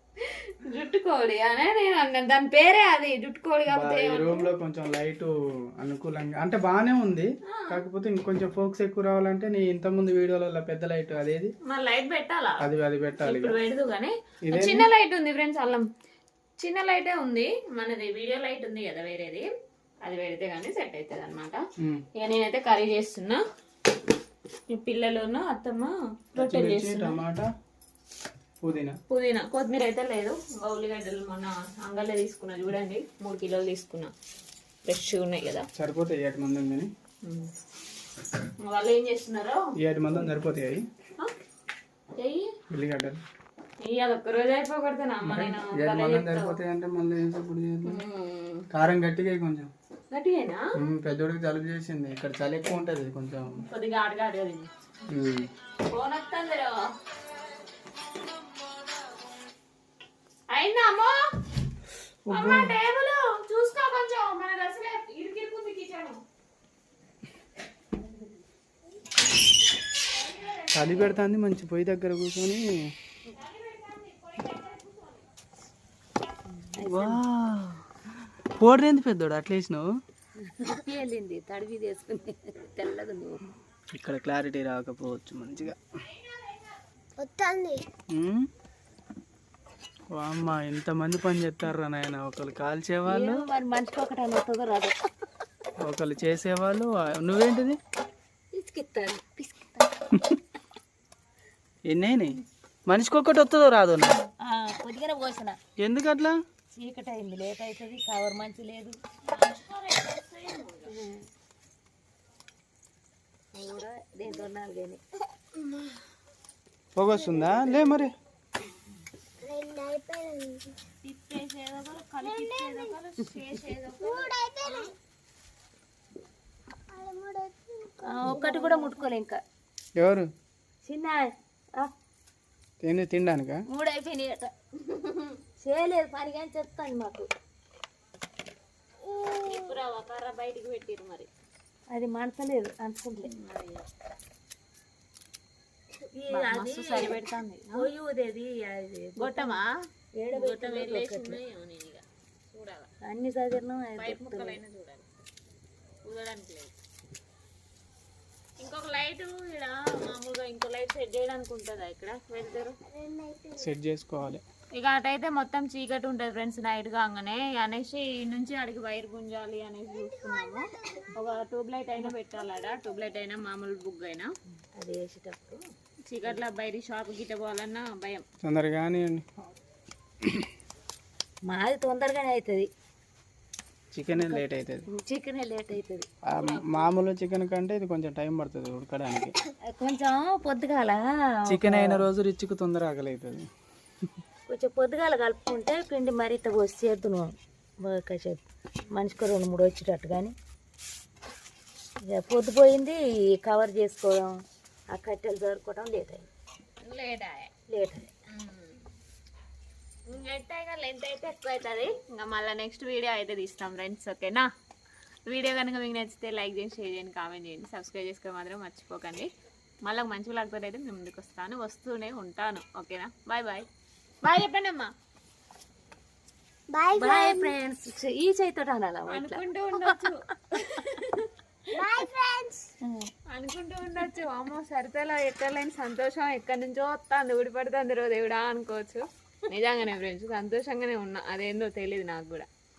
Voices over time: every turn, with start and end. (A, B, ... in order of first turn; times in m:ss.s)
0:00.2-0:04.5 A
0:03.7-0:11.5 B
0:07.5-0:07.8 A
0:11.7-0:12.6 A
0:12.6-0:13.6 B
0:13.2-0:15.9 A
0:14.5-0:14.9 B
0:16.6-0:19.5 A
0:20.0-0:21.6 A
0:21.8-0:22.0 B
0:22.2-0:23.4 A
0:24.7-0:27.2 A
0:26.4-0:27.5 B
0:28.6-0:29.0 B
0:29.1-0:34.1 A
0:34.9-0:35.7 A
0:35.8-0:36.9 B
0:37.2-0:37.5 A
0:38.6-0:39.6 A
0:39.8-0:40.8 B
0:42.2-0:42.5 A
0:42.7-0:43.2 B
0:43.8-0:46.6 A
0:45.2-0:48.0 B
0:47.8-0:48.7 A
0:48.7-0:49.7 B
0:50.1-0:50.7 A
0:50.8-0:53.6 B
0:53.7-0:54.7 A
0:55.1-0:55.5 B
0:55.9-0:56.8 A
1:00.5-1:01.2 A
1:02.3-1:02.8 B
1:02.3-1:06.2 A
1:10.1-1:11.2 A
1:10.7-1:12.7 B
1:13.3-1:15.3 A
1:16.5-1:17.2 C
1:16.8-1:18.0 B
1:18.5-1:19.9 B
1:20.4-1:23.4 C
1:23.9-1:25.8 B
1:27.2-1:27.8 D
1:28.1-1:28.5 B
1:30.1-1:33.4 B
1:33.1-1:35.0 C
1:35.8-1:37.8 B
1:38.5-1:39.9 C
1:41.9-1:44.2 B
1:44.4-1:45.6 C
1:45.8-1:46.4 B
1:46.7-1:49.0 C
1:49.3-1:51.0 A
1:50.9-1:51.2 C
1:53.5-1:55.0 C
1:57.0-1:58.1 B
1:57.3-1:58.1 C
1:59.4-2:00.7 D
2:01.0-2:04.9 A
2:02.3-2:02.9 D
2:04.0-2:04.9 D
2:06.9-2:08.4 D
2:08.0-2:09.4 C
2:10.0-2:10.3 B
2:10.8-2:11.9 C
2:12.8-2:13.6 B
2:13.7-2:17.3 C
2:19.4-2:21.3 A
2:21.9-2:23.3 C
2:23.2-2:23.8 A
2:26.2-2:29.6 C
2:26.3-2:27.9 A
2:29.2-2:29.7 A
2:30.2-2:31.4 C
2:30.3-2:32.9 A
2:33.0-2:34.6 C
2:34.0-2:35.1 A
2:36.1-2:36.7 A
2:38.6-2:42.8 A
2:42.9-2:43.7 D
2:43.6-2:44.4 B
2:44.8-2:54.3 A
2:50.0-2:51.1 D
2:54.8-2:55.6 C
2:56.1-2:58.2 A
2:58.4-2:59.5 B
3:01.5-3:02.7 C
3:03.9-3:04.9 B
3:04.1-3:06.1 C
3:06.3-3:09.4 B
3:06.4-3:07.0 A
3:09.7-3:12.1 C
3:11.5-3:13.5 B
3:14.5-3:20.4 C
3:22.0-3:24.4 C
3:24.9-3:26.3 C
3:26.8-3:27.5 A
3:27.7-3:28.1 C
3:28.3-3:28.8 A
3:30.1-3:34.5 A
3:35.3-3:39.3 A
3:39.8-3:43.7 A
3:44.2-3:44.9 A
3:46.7-3:47.5 D
3:47.0-3:50.1 C
3:49.1-3:51.2 A
3:51.7-3:52.8 D
3:52.8-3:53.1 C
3:53.3-4:02.5 A